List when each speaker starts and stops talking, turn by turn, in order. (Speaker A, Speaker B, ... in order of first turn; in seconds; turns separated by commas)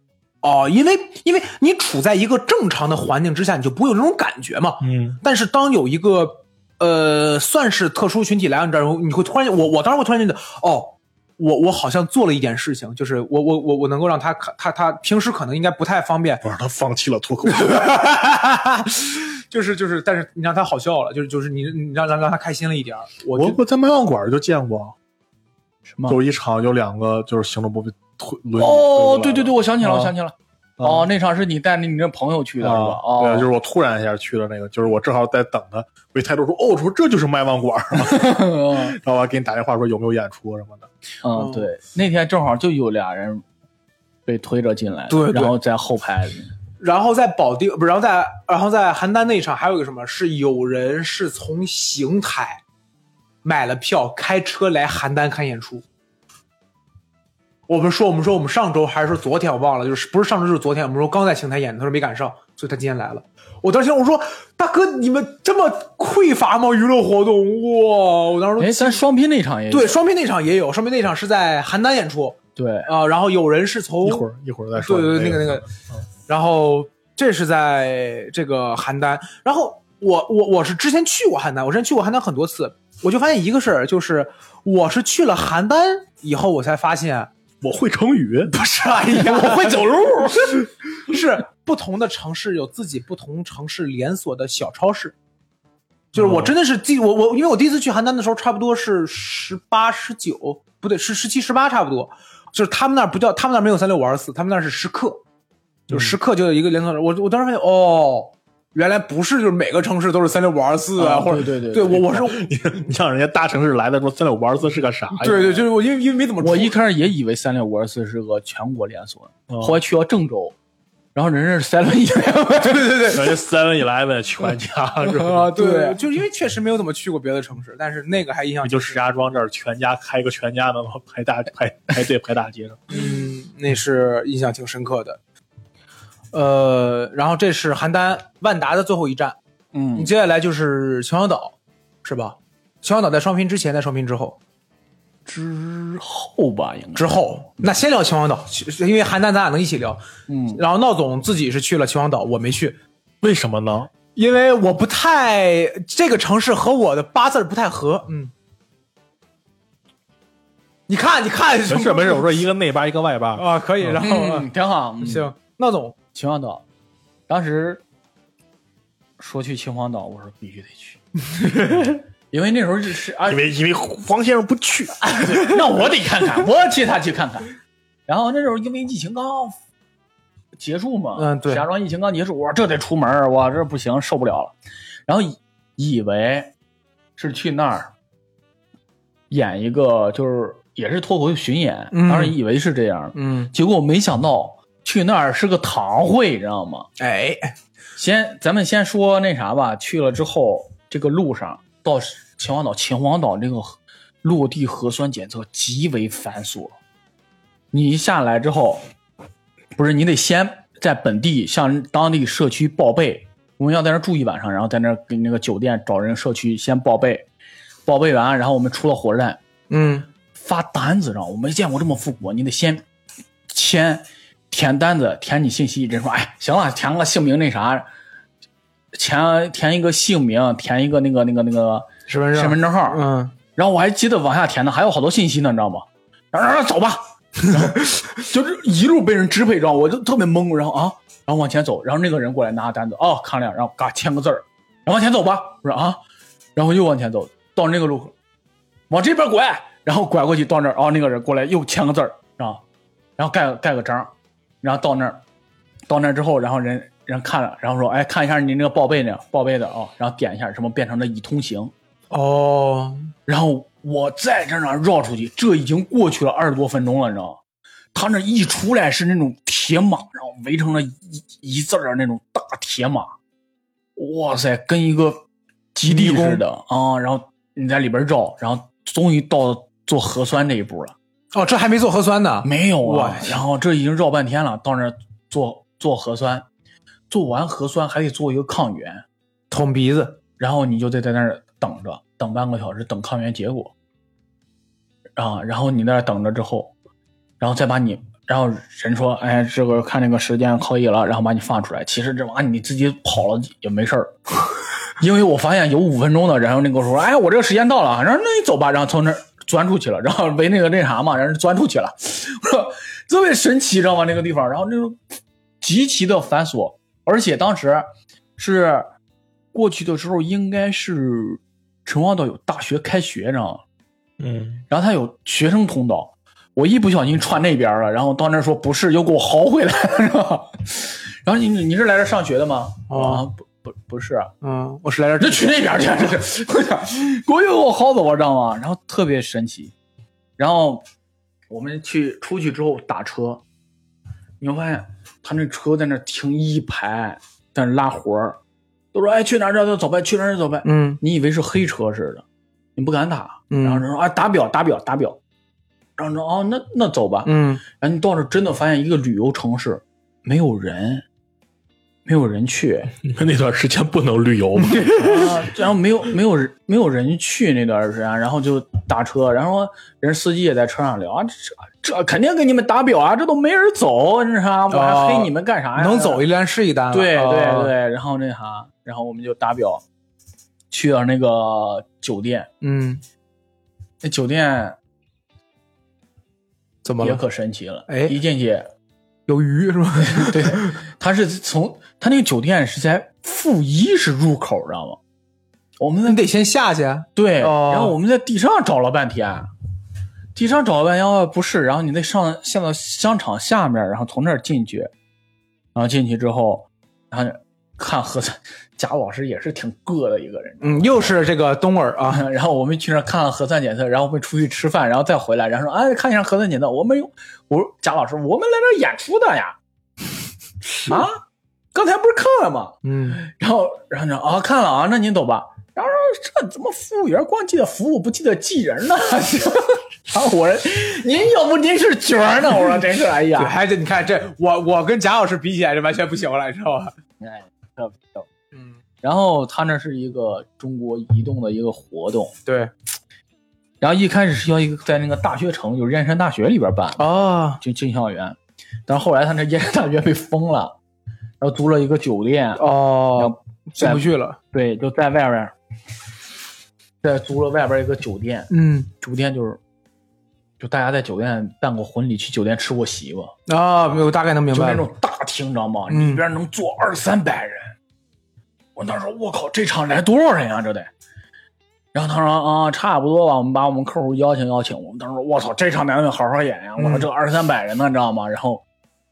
Speaker A: 0.4-16.4, Speaker B: 4.8-5.2, Speaker B: 16.4-17.9, Speaker A: 17.5-23.6, Speaker B: 23.4-24.9, Speaker C: 25.9-26.2, Speaker B: 26.1-30.1, Speaker C: 28.6-33.5, Speaker B: 30.8-31.1, Speaker B: 32.6-40.9, Speaker C: 37.9-39.0, Speaker C: 41.2-43.5, Speaker A: 41.3-41.7, Speaker C: 44.3-46.5, Speaker A: 45.1-45.6, Speaker A: 46.8-52.6, Speaker A: 53.4-55.9, Speaker A: 57.7-69.0, Speaker C: 68.6-70.0, Speaker A: 69.7-74.3, Speaker C: 72.6-72.9, Speaker B: 74.0-75.8, Speaker A: 74.8-75.7, Speaker A: 76.3-87.3, Speaker B: 87.6-88.5, Speaker A: 88.5-89.9, Speaker C: 89.1-90.7, Speaker A: 90.6-95.2, Speaker A: 96.1-105.2, Speaker B: 96.2-96.5, Speaker B: 105.9-106.2, Speaker A: 105.9-112.5, Speaker C: 111.0-112.2, Speaker B: 112.3-115.6, Speaker A: 115.2-116.7, Speaker C: 116.4-120.6, Speaker B: 119.5-119.8, Speaker C: 121.2-123.1, Speaker A: 122.6-123.3, Speaker B: 123.1-125.5, Speaker C: 125.0-126.0, Speaker A: 125.6-129.0, Speaker B: 128.6-132.9, Speaker A: 132.9-135.2, Speaker A: 136.3-139.4, Speaker C: 139.7-140.1, Speaker A: 140.0-144.4, Speaker C: 145.3-147.1, Speaker A: 146.9-152.8, Speaker C: 150.3-150.6, Speaker B: 153.2-153.9, Speaker A: 154.2-158.3, Speaker A: 160.9-162.3, Speaker B: 161.7-163.9, Speaker A: 163.3-164.5, Speaker C: 164.0-165.3, Speaker A: 165.0-166.0, Speaker C: 166.1-166.6, Speaker C: 167.3-167.8, Speaker C: 169.2-173.4, Speaker A: 171.3-171.9, Speaker B: 173.3-175.1, Speaker A: 175.2-175.6, Speaker C: 175.2-177.6, Speaker C: 178.1-179.6, Speaker C: 180.6-184.5, Speaker A: 181.2-181.6, Speaker C: 185.1-186.5, Speaker C: 187.2-187.9, Speaker C: 189.3-196.9, Speaker A: 191.9-192.4, Speaker A: 193.1-193.5, Speaker A: 197.0-197.5, Speaker C: 198.0-206.8, Speaker C: 207.7-208.8, Speaker C: 209.8-217.3, Speaker C: 217.9-219.4, Speaker A: 219.7-220.1, Speaker C: 220.4-222.8, Speaker C: 223.5-227.9, Speaker C: 228.9-233.0, Speaker A: 232.1-233.3, Speaker C: 233.6-246.0, Speaker C: 246.6-248.2, Speaker C: 248.9-252.6, Speaker C: 253.2-255.2, Speaker C: 255.9-261.7, Speaker A: 262.1-263.1, Speaker C: 263.3-267.4, Speaker C: 267.9-273.1, Speaker C: 274.0-275.2, Speaker C: 275.8-281.0, Speaker A: 275.9-276.4, Speaker A: 281.3-283.4, Speaker C: 282.4-286.5, Speaker C: 287.1-289.1, Speaker A: 289.5-290.2, Speaker C: 290.4-293.7, Speaker C: 295.2-296.7, Speaker C: 297.4-315.0, Speaker C: 315.6-318.9, Speaker C: 319.5-323.6, Speaker B: 324.2-324.6, Speaker C: 324.7-334.3, Speaker A: 332.9-333.2, Speaker A: 334.4-335.6, Speaker C: 335.2-339.7, Speaker C: 340.4-340.8, Speaker C: 341.5-343.4, Speaker C: 344.4-348.4, Speaker C: 348.9-352.2, Speaker A: 350.6-351.0, Speaker C: 352.8-355.2, Speaker A: 353.5-353.9, Speaker C: 356.0-361.1, Speaker A: 357.2-357.6, Speaker C: 362.1-363.0, Speaker B: 363.0-365.3, Speaker A: 364.6-365.2, Speaker C: 364.9-376.2, Speaker A: 374.7-377.7, Speaker C: 376.9-379.8, Speaker C: 380.7-382.5, Speaker A: 382.6-383.0, Speaker C: 384.0-384.8, Speaker A: 386.8-387.2, Speaker C: 387.0-388.7, Speaker A: 387.9-388.2, Speaker A: 389.3-390.8, Speaker C: 390.1-395.0, Speaker C: 395.8-396.2, Speaker A: 396.1-398.0, Speaker C: 397.2-399.5, Speaker C: 400.4-404.9, Speaker C: 405.8-411.2, Speaker A: 410.6-412.3, Speaker C: 412.1-419.6, Speaker C: 420.8-421.2, Speaker C: 421.7-433.6, Speaker A: 422.8-423.2, Speaker A: 433.4-436.9, Speaker C: 437.2-438.3, Speaker A: 438.5-438.8, Speaker C: 439.0-442.3, Speaker A: 442.4-442.7, Speaker C: 443.8-447.0, Speaker A: 447.0-447.6, Speaker C: 447.6-450.8, Speaker C: 451.4-455.5, Speaker A: 452.6-454.4, Speaker C: 457.0-458.5, Speaker A: 458.5-458.9, Speaker C: 459.0-459.6, Speaker C: 460.6-463.3, Speaker A: 463.5-464.9, Speaker C: 464.5-467.8, Speaker A: 465.9-466.2, Speaker C: 468.8-470.9, Speaker C: 471.9-478.6, Speaker A: 476.8-477.1